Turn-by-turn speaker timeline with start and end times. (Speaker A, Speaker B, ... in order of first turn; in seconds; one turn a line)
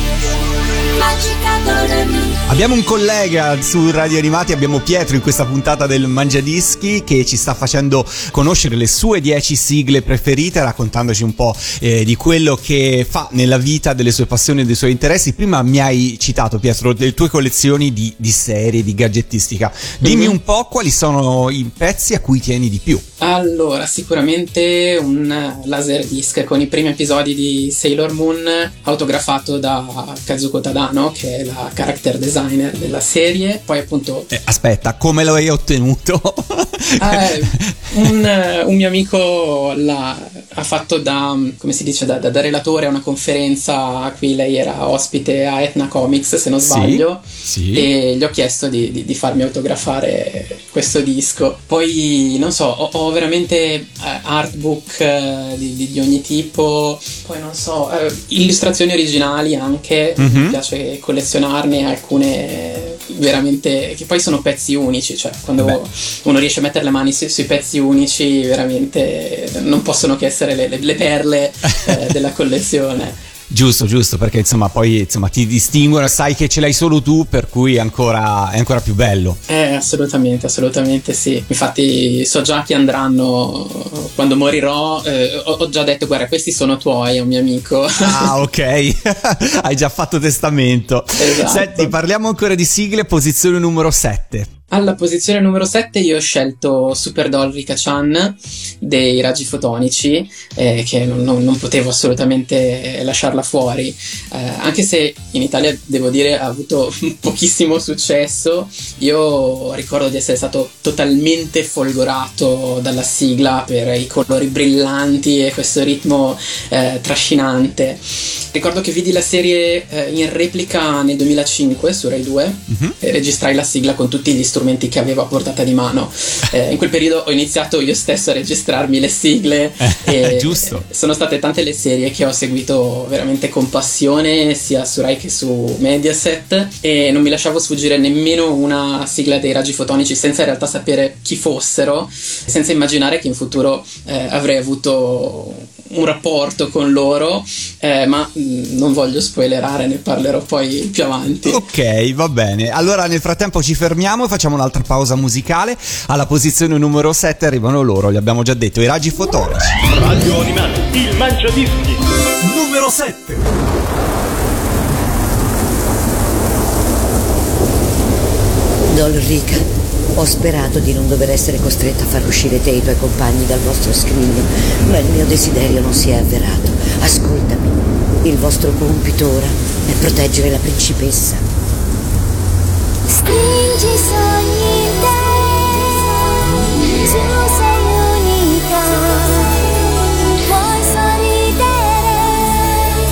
Speaker A: 0.9-2.4
Speaker B: 2.5-23.0
Speaker C: 20.0-20.4
Speaker C: 23.2-34.3
Speaker B: 34.3-37.6
Speaker C: 37.0-73.2
Speaker B: 46.6-47.9
Speaker B: 60.2-60.6
Speaker B: 73.5-79.4
Speaker C: 79.5-88.3
Speaker B: 88.0-94.5
Speaker C: 91.2-91.9
Speaker C: 94.7-118.0
Speaker C: 118.5-151.6
Speaker B: 122.7-123.0
Speaker B: 129.8-130.8
Speaker B: 151.4-159.8
Speaker D: 159.9-163.5
Speaker E: 168.9-181.4
Speaker A: 183.1-189.7
Speaker A: 190.3-192.8